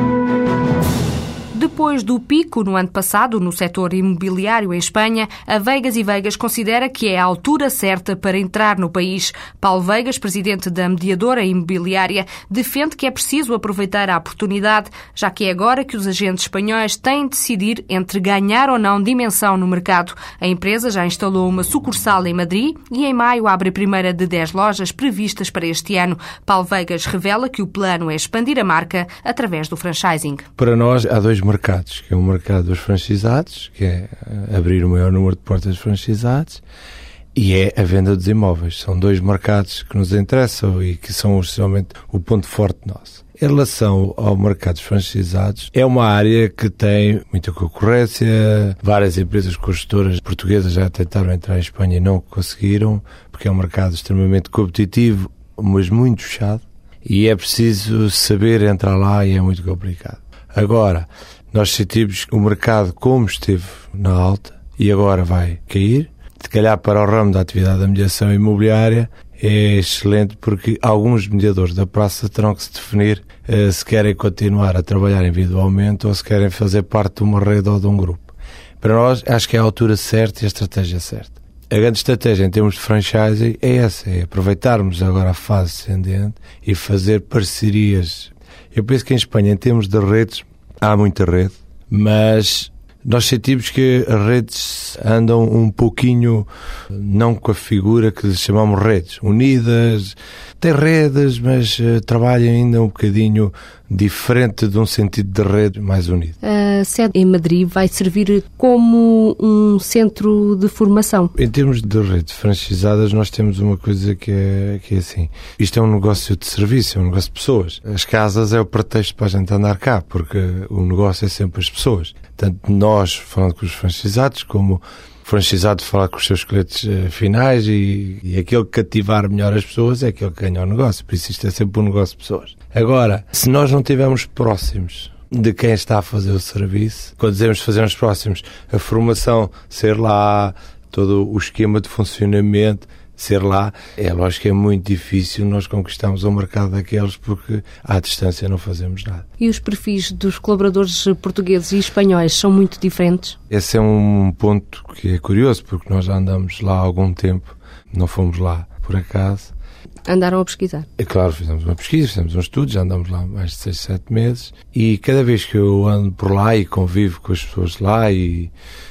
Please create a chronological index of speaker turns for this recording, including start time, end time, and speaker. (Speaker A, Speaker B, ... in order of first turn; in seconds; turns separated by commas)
Speaker A: 1.5-30.5, Speaker B: 30.6-36.6, Speaker B: 37.4-106.4, Speaker A: 106.4-111.3, Speaker B: 111.3-149.2, Speaker A: 149.4-153.3, Speaker B: 153.5-159.5, Speaker A: 160.1-160.9, Speaker B: 161.0-168.5